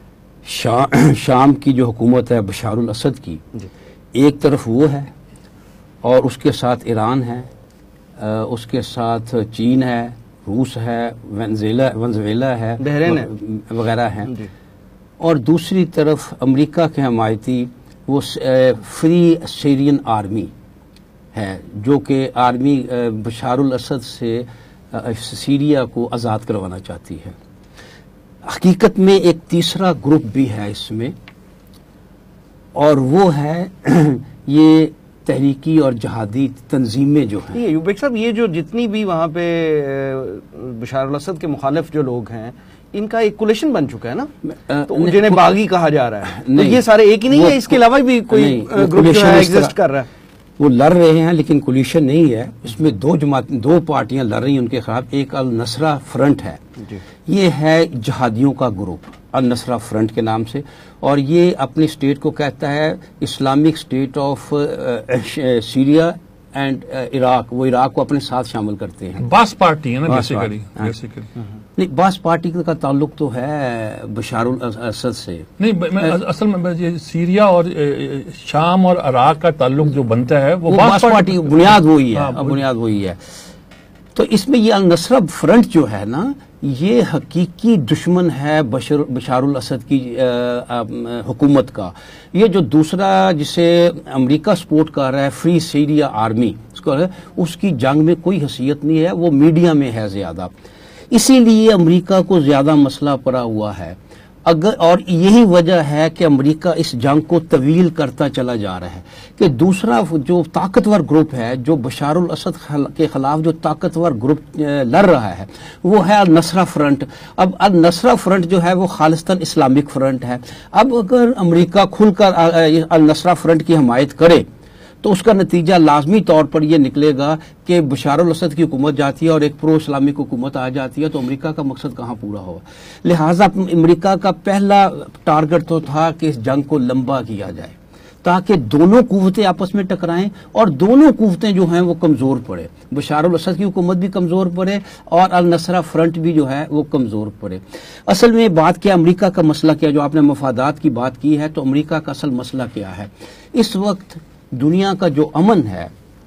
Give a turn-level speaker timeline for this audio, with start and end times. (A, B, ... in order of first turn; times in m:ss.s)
0:00.4-0:03.4 A
0:04.1-0:05.1 A
0:06.0-0:07.5 A
0:08.2-0:14.3 A
0:12.8-0:13.3 B
0:15.2-0:20.5 A
0:21.3-0:27.3 A
0:28.4-0:31.1 A
0:32.7-0:37.6 A
0:37.5-0:44.3 B
0:44.5-0:45.5 A
0:44.9-0:50.1 B
0:46.3-0:49.7 A
0:50.6-0:56.6 A
0:57.2-1:09.2 A
1:09.2-1:11.3 C
1:10.1-1:10.9 A
1:11.8-1:15.5 A
1:15.6-1:22.6 C
1:20.7-1:23.2 A
1:24.1-1:40.5 A
1:41.1-2:04.4 A
2:05.0-2:35.9 A